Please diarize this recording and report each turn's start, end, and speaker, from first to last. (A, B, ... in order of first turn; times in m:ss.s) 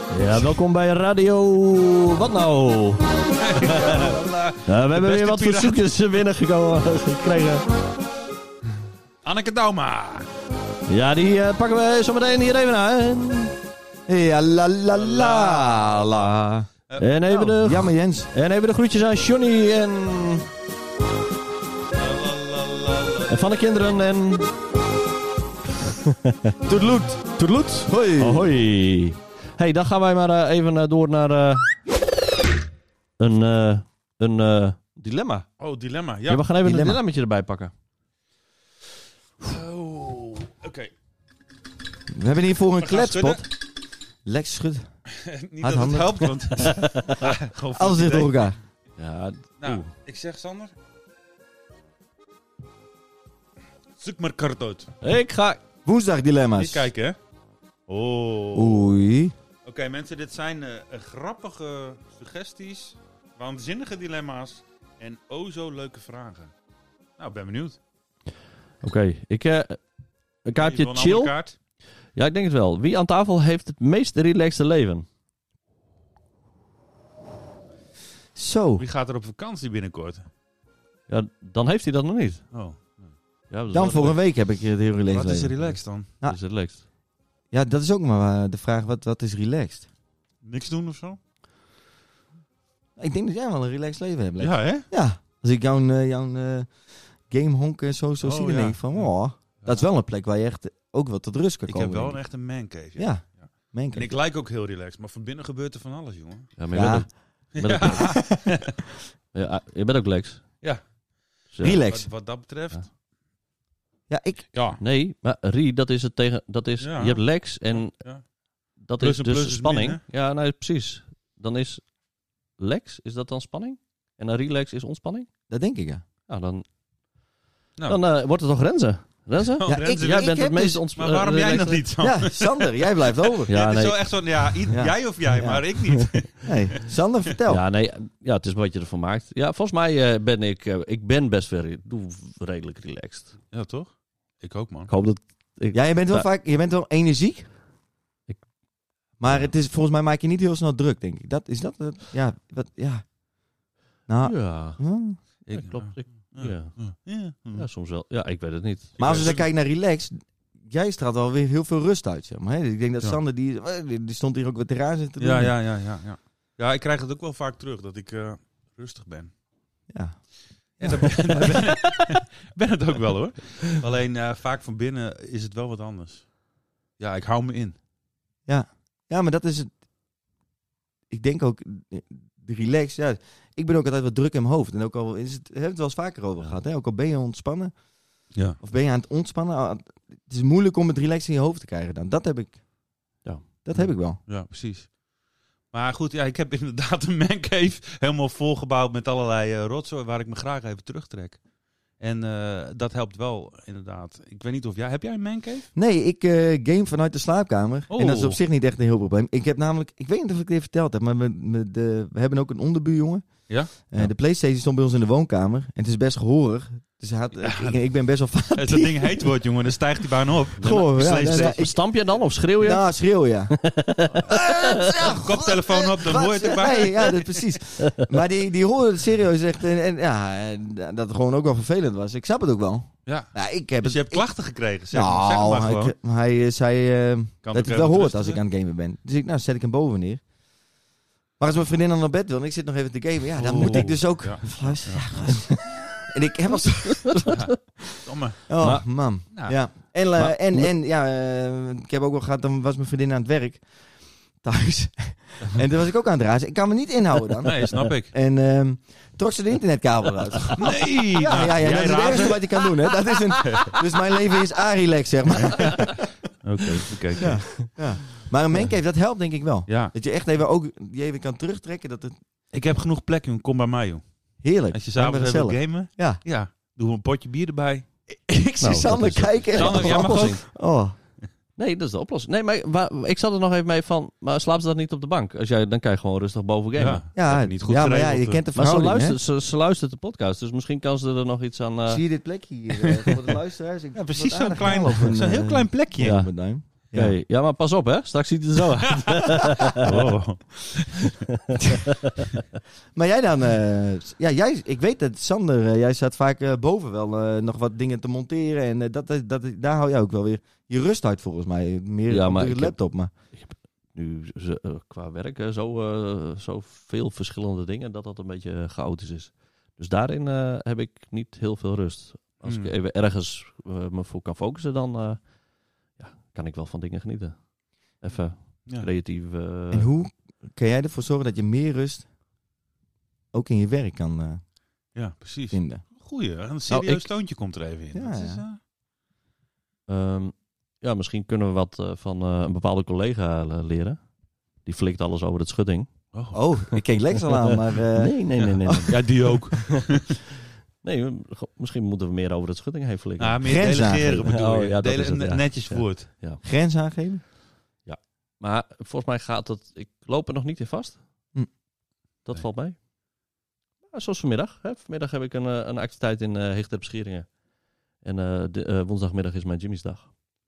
0:00.1-0:03.0 A
0:03.4-0:06.2 B
0:03.6-0:04.1 A
0:04.6-0:07.6 A
0:09.2-0:10.3 B
0:10.9-0:13.6 A
0:14.1-0:16.7 C
0:14.9-0:16.3 B
0:17.0-0:20.5 A
0:17.3-0:18.3 C
0:21.9-0:23.5 B
0:23.3-0:24.5 A
0:26.0-0:26.5 A
0:26.7-0:28.5 C
0:28.2-0:31.8 A
0:33.2-0:35.5 A
0:35.6-0:36.5 B
0:36.3-0:37.7 A
0:36.6-0:37.0 C
0:39.4-0:40.9 B
0:42.1-0:43.5 C
0:42.8-0:43.4 B
0:44.2-0:44.9 C
0:45.2-0:48.6 B
0:45.6-0:46.4 C
0:46.7-0:47.2 A
0:47.8-0:48.6 C
0:49.0-0:49.9 A
0:49.6-0:50.7 B
0:54.0-0:54.9 B
0:55.0-0:55.6 A
0:55.8-0:56.9 C
0:56.6-0:57.2 B
0:57.9-0:59.0 B
0:58.5-0:59.3 C
0:59.6-1:06.5 B
1:07.2-1:07.8 B
1:08.8-1:09.8 A
1:10.4-1:11.3 A
1:10.6-1:11.5 B
1:12.2-1:15.1 A
1:18.4-1:18.8 C
1:18.8-1:20.3 B
1:21.1-1:22.4 A
1:22.5-1:23.1 B
1:23.5-1:24.2 A
1:23.7-1:26.4 C
1:25.1-1:26.1 B
1:26.2-1:26.8 A
1:27.5-1:29.9 C
1:30.4-1:31.2 B
1:33.0-1:42.2 C
1:34.4-1:34.9 B
1:38.2-1:39.8 B
1:41.7-1:46.5 B
1:43.0-1:44.1 C
1:46.6-1:48.2 A
1:46.7-1:47.1 C
1:47.6-1:48.7 B
1:49.3-1:50.5 A
1:51.5-1:51.8 A
1:51.6-1:52.1 C
1:51.6-1:52.9 B
1:54.1-1:54.5 C
1:54.5-1:54.8 B
1:54.8-1:58.0 A
1:56.8-1:58.2 B
1:58.8-2:01.9 A
1:59.0-2:00.0 B
2:02.6-2:05.3 A
2:05.5-2:06.0 C
2:06.3-2:06.6 A
2:07.9-2:11.9 A
2:09.6-2:16.6 B
2:09.7-2:10.8 C
2:12.0-2:13.5 C
2:13.5-2:14.0 A
2:14.7-2:15.6 C
2:16.4-2:17.6 C
2:17.5-2:23.4 A
2:23.5-2:24.9 B
2:24.9-2:26.3 A
2:25.7-2:27.5 C
2:29.2-2:33.1 C
2:34.1-2:35.2 C
2:34.2-2:36.9 A
2:35.5-2:37.7 B
2:37.5-2:39.0 A
2:39.0-2:39.5 B
2:39.0-2:45.5 C
2:45.2-2:49.3 B
2:49.9-2:50.2 C
2:50.8-2:56.3 B
2:50.8-2:51.1 C
2:57.0-2:57.8 B
2:58.5-2:59.7 C
3:01.1-3:07.8 C
3:08.6-3:12.6 C
3:13.6-3:14.2 C
3:13.8-3:15.0 B
3:15.7-3:21.4 B
3:22.0-3:25.7 B
3:25.8-3:39.3 C
3:27.9-3:28.4 B
3:33.5-3:33.9 B
3:37.4-3:37.8 B
3:38.6-3:41.8 B
3:40.6-3:41.8 C
3:40.6-3:42.8 A
3:42.6-3:43.5 C
3:43.5-3:45.1 A
3:44.3-3:47.4 B
3:44.3-3:54.2 C
3:47.8-3:48.0 A
3:53.1-3:56.0 B
3:54.9-4:00.2 C
3:57.4-3:58.4 B
4:01.4-4:07.4 C
4:03.4-4:05.1 B
4:07.0-4:07.5 A
4:07.3-4:08.6 B
4:08.5-4:13.7 C
4:08.6-4:08.8 A
4:09.3-4:09.6 B
4:10.2-4:10.7 A
4:14.4-4:26.0 C
4:17.4-4:18.1 B
4:20.6-4:22.5 B
4:23.4-4:23.8 B
4:25.4-4:27.4 B
4:27.2-4:32.2 C
4:29.7-4:29.9 B
4:32.5-4:37.9 B
4:34.4-4:36.2 C
4:38.3-4:41.0 C
4:38.6-4:40.4 A
4:39.5-4:40.4 B
4:41.6-4:47.0 A
4:46.8-4:48.4 B
4:47.1-4:49.2 C
4:48.6-4:52.0 A
4:51.9-4:57.2 C
4:54.0-4:56.2 B
4:56.0-4:56.3 A
4:56.8-5:00.0 A
4:59.8-5:01.0 B
5:01.5-5:02.2 A
5:03.0-5:13.1 C
5:12.1-5:25.4 A
5:22.4-5:22.7 B
5:25.9-5:29.9 A
5:29.7-5:32.1 C
5:33.3-5:34.4 C
5:35.0-5:38.6 B
5:35.5-5:35.8 C
5:36.7-5:37.1 A
5:37.9-5:38.4 C
5:39.9-5:44.1 A
5:44.6-5:46.1 A
5:46.1-5:46.6 B
5:46.3-5:49.0 C
5:47.4-5:49.6 A
5:48.4-5:50.1 B
5:50.8-5:53.4 A
5:53.2-5:56.1 B
5:53.4-5:54.3 C
5:54.2-5:56.4 A
5:56.4-5:57.2 C
5:57.8-6:01.0 A
6:02.2-6:02.8 A
6:03.9-6:07.3 A
6:08.0-6:10.2 A